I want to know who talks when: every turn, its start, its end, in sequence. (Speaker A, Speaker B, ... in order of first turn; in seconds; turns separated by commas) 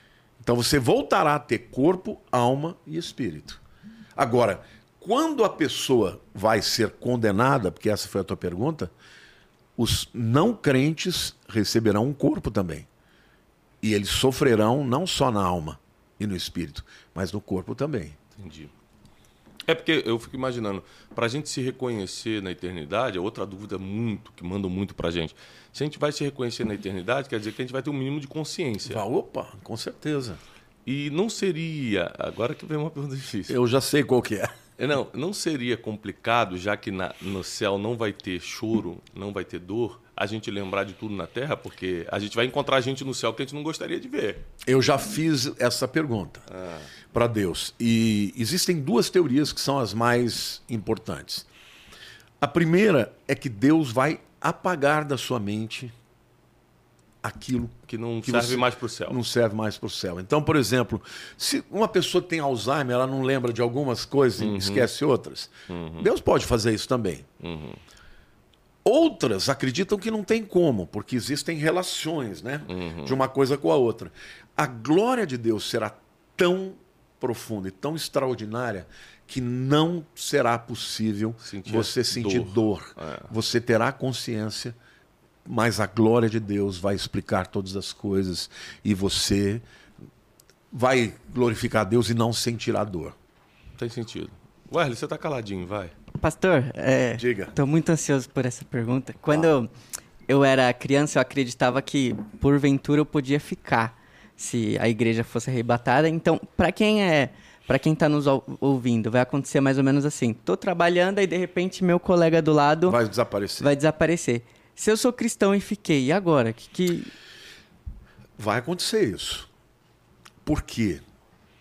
Speaker A: 0.4-3.6, Speaker A: 4.2-8.9, Speaker A: 9.8-12.9, Speaker A: 13.8-18.2, Speaker B: 18.4-18.7, Speaker B: 19.6-29.0, Speaker A: 28.9-30.4, Speaker B: 30.8-33.5, Speaker A: 33.5-34.5, Speaker B: 34.8-44.5, Speaker A: 44.6-46.5, Speaker B: 46.5-46.9, Speaker A: 47.1-51.5, Speaker A: 52.4-55.9, Speaker A: 57.2-67.3, Speaker B: 57.9-59.2, Speaker B: 64.4-64.9, Speaker B: 65.7-66.1, Speaker B: 67.4-67.8, Speaker A: 68.8-84.7, Speaker B: 72.7-73.2, Speaker B: 81.4-83.3, Speaker A: 85.5-89.6, Speaker A: 90.7-93.2, Speaker B: 93.8-95.9, Speaker C: 96.2-99.7, Speaker A: 97.2-97.5, Speaker C: 100.3-113.0, Speaker A: 112.8-113.7, Speaker C: 113.6-117.1, Speaker A: 118.4-119.5, Speaker A: 120.4-121.0